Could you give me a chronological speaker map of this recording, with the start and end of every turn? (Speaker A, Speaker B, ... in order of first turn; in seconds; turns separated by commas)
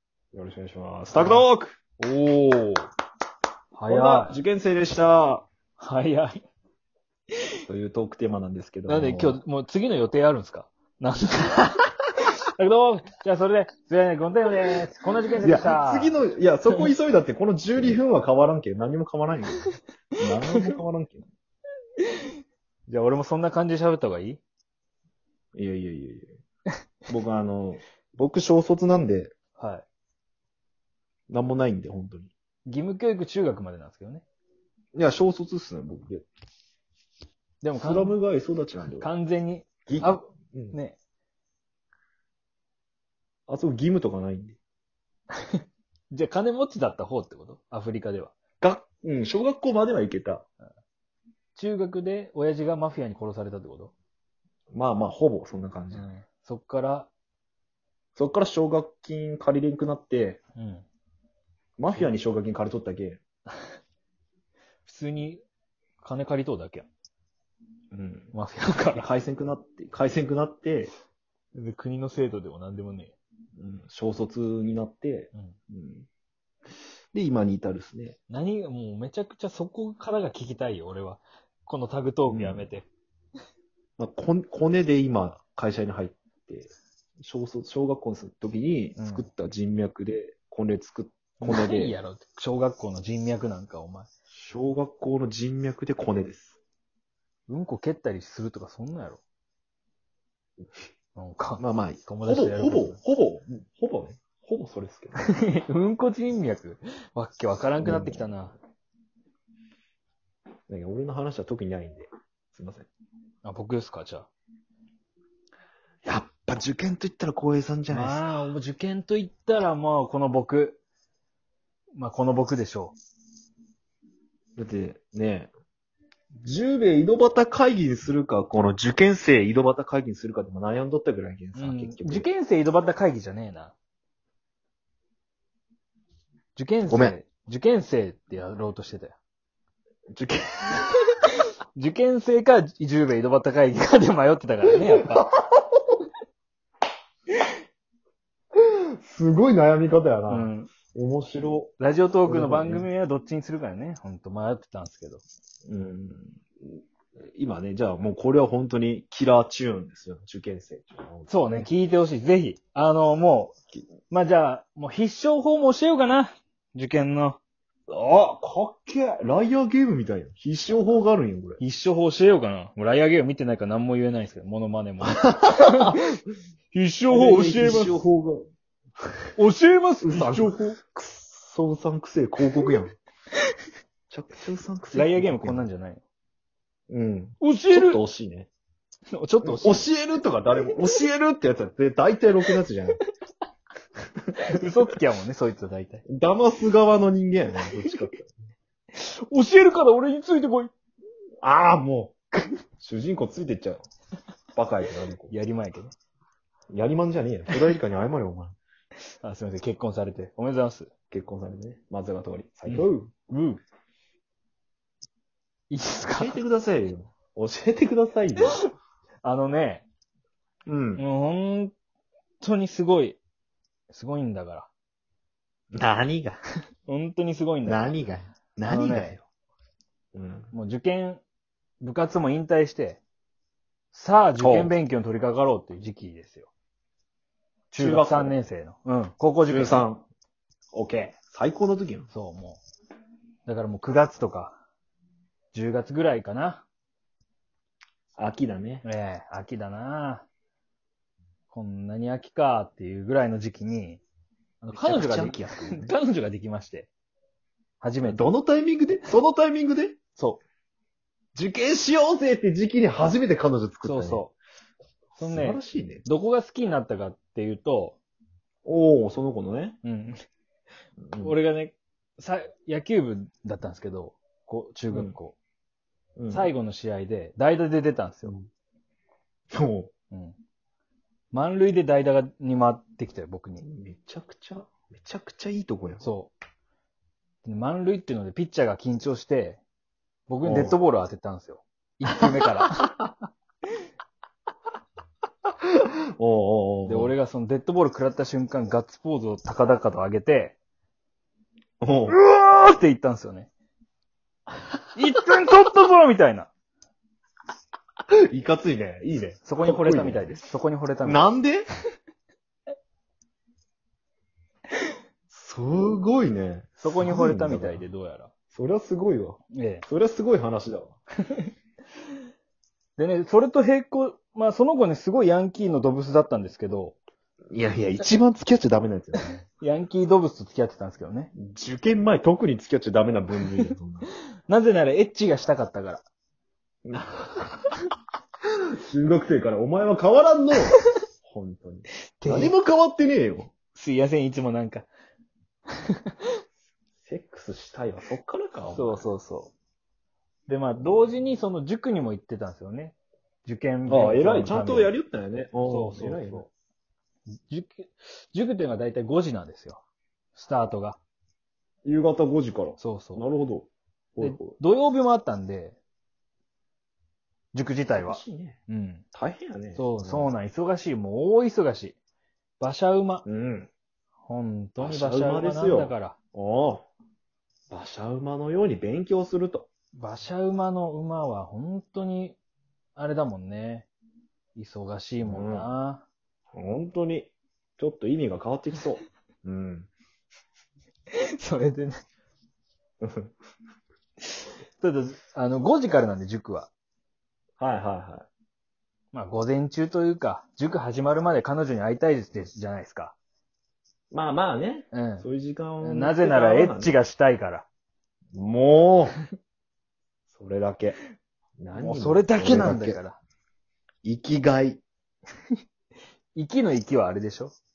Speaker A: 0.3-1.8, Speaker B: 1.1-1.5, Speaker B: 2.0-2.9, Speaker B: 3.7-4.4, Speaker A: 3.9-5.5, Speaker B: 5.8-6.4, Speaker A: 7.7-9.4, Speaker B: 8.9-16.2, Speaker A: 15.4-21.2, Speaker B: 22.9-24.4, Speaker A: 25.5-26.4, Speaker A: 27.1-29.3, Speaker B: 29.6-29.8, Speaker A: 31.3-32.3, Speaker B: 32.6-34.2, Speaker A: 34.9-36.2, Speaker B: 37.6-38.1, Speaker A: 37.8-39.1, Speaker B: 38.9-41.0, Speaker A: 39.9-40.8, Speaker A: 43.5-44.6, Speaker B: 46.1-48.3, Speaker A: 48.6-50.5, Speaker B: 51.5-53.9, Speaker A: 54.7-56.1, Speaker B: 55.9-57.1, Speaker A: 58.1-60.4, Speaker B: 60.6-60.8, Speaker A: 61.8-63.2, Speaker B: 64.8-65.4, Speaker B: 66.0-66.9, Speaker A: 67.9-68.3, Speaker B: 68.3-69.1, Speaker A: 69.0-70.9, Speaker B: 71.5-73.1, Speaker A: 73.6-76.1, Speaker A: 77.1-78.2, Speaker B: 78.3-82.9, Speaker A: 82.3-82.7, Speaker A: 84.0-92.0, Speaker B: 89.0-89.2, Speaker B: 91.4-94.1, Speaker A: 94.3-96.6, Speaker B: 97.5-99.2, Speaker B: 101.1-103.0, Speaker A: 101.6-105.2, Speaker B: 105.2-108.5, Speaker A: 107.8-108.3, Speaker A: 110.7-112.9, Speaker B: 113.4-114.3, Speaker A: 116.0-118.3, Speaker B: 117.9-120.8, Speaker B: 122.0-122.9, Speaker A: 124.5-125.5, Speaker A: 126.4-132.3, Speaker B: 131.6-133.7, Speaker B: 136.6-139.2, Speaker A: 136.9-137.2, Speaker A: 140.1-140.9, Speaker B: 141.7-145.2, Speaker A: 144.9-145.8, Speaker A: 148.6-151.7, Speaker B: 150.3-150.7, Speaker B: 151.8-155.2, Speaker A: 152.2-152.9, Speaker A: 155.7-156.8, Speaker A: 157.3-161.7, Speaker B: 161.3-163.5, Speaker B: 164.1-167.4, Speaker A: 167.9-171.6, Speaker B: 171.6-176.0, Speaker A: 175.1-176.0, Speaker B: 176.7-178.0, Speaker A: 177.1-178.5, Speaker B: 179.4-180.7, Speaker A: 180.0-182.9, Speaker A: 184.1-185.7, Speaker B: 184.9-186.0, Speaker A: 186.9-188.5, Speaker B: 187.4-188.0, Speaker B: 189.1-189.8, Speaker A: 189.4-193.0, Speaker B: 194.5-196.0, Speaker A: 196.1-198.4, Speaker B: 197.6-197.9, Speaker B: 198.9-200.7, Speaker A: 201.4-203.9, Speaker A: 204.5-205.3, Speaker B: 205.3-205.9, Speaker A: 206.7-208.6, Speaker B: 209.2-210.9, Speaker A: 211.1-213.3, Speaker B: 212.7-213.6, Speaker B: 215.7-216.4, Speaker A: 216.1-218.6, Speaker B: 219.2-219.8, Speaker A: 220.7-221.0, Speaker B: 221.0-221.7, Speaker B: 222.4-223.2, Speaker B: 223.9-224.7, Speaker A: 225.7-226.4, Speaker B: 226.8-227.9, Speaker A: 227.6-229.2, Speaker B: 228.7-229.2, Speaker A: 230.1-230.5, Speaker B: 230.5-231.2, Speaker B: 231.8-233.0, Speaker B: 233.9-236.5, Speaker A: 234.4-234.7, Speaker B: 237.7-239.8, Speaker A: 237.8-238.4, Speaker A: 239.5-240.1, Speaker A: 240.7-242.1, Speaker B: 242.1-242.6, Speaker B: 243.4-244.6, Speaker B: 245.5-246.6, Speaker A: 248.2-248.8, Speaker B: 248.8-250.2, Speaker B: 251.5-254.0, Speaker B: 254.6-256.9, Speaker A: 254.7-255.9, Speaker B: 257.8-258.3, Speaker A: 258.1-260.2, Speaker A: 261.3-264.2, Speaker B: 263.8-264.3, Speaker A: 265.1-266.0, Speaker B: 265.1-268.0, Speaker A: 268.6-269.8, Speaker B: 269.8-270.1, Speaker A: 271.0-271.4, Speaker B: 271.2-275.3, Speaker A: 274.9-275.1, Speaker A: 276.2-276.5, Speaker B: 276.3-278.4, Speaker A: 279.5-279.9, Speaker B: 280.1-280.4, Speaker B: 281.3-283.6, Speaker A: 283.6-286.0, Speaker B: 286.0-286.3, Speaker B: 287.4-289.6, Speaker B: 290.3-292.9, Speaker A: 290.4-290.8, Speaker A: 292.7-292.9, Speaker A: 295.7-297.1, Speaker B: 296.9-300.6, Speaker A: 301.8-302.1, Speaker B: 302.1-303.5, Speaker B: 304.9-306.5, Speaker A: 308.3-310.3, Speaker B: 309.4-311.3, Speaker A: 311.0-311.6, Speaker A: 315.3-317.8, Speaker B: 316.8-318.3, Speaker A: 318.5-320.9, Speaker B: 319.5-319.8, Speaker B: 323.0-327.0, Speaker A: 327.5-329.3, Speaker B: 329.1-331.3, Speaker A: 331.3-334.1, Speaker B: 334.5-336.0, Speaker A: 336.8-337.7, Speaker A: 338.8-343.5, Speaker B: 342.2-342.5, Speaker B: 343.7-344.9, Speaker A: 347.0-349.1, Speaker B: 348.7-349.5, Speaker B: 350.5-354.9, Speaker A: 353.9-356.4, Speaker B: 355.7-356.5, Speaker B: 357.5-359.8, Speaker B: 360.3-361.0, Speaker A: 361.8-364.6, Speaker B: 362.8-363.2, Speaker B: 364.2-365.8, Speaker B: 367.5-369.0, Speaker A: 367.9-368.6, Speaker A: 369.1-370.3, Speaker B: 369.8-371.9, Speaker B: 372.6-373.2, Speaker A: 373.2-373.7, Speaker B: 374.2-376.1, Speaker A: 374.8-376.9, Speaker A: 377.7-379.7, Speaker B: 379.9-382.4, Speaker B: 382.9-383.9, Speaker B: 384.6-386.0, Speaker A: 385.2-385.7, Speaker A: 386.5-389.9, Speaker B: 391.4-391.9, Speaker A: 393.0-393.3, Speaker B: 394.8-396.7, Speaker A: 397.6-398.3, Speaker B: 399.1-403.1, Speaker A: 404.1-406.9, Speaker B: 404.9-405.2, Speaker B: 405.8-407.7, Speaker A: 408.3-409.2, Speaker A: 410.3-411.0, Speaker A: 411.6-413.0, Speaker B: 411.7-413.2, Speaker A: 414.0-414.8, Speaker B: 416.3-417.5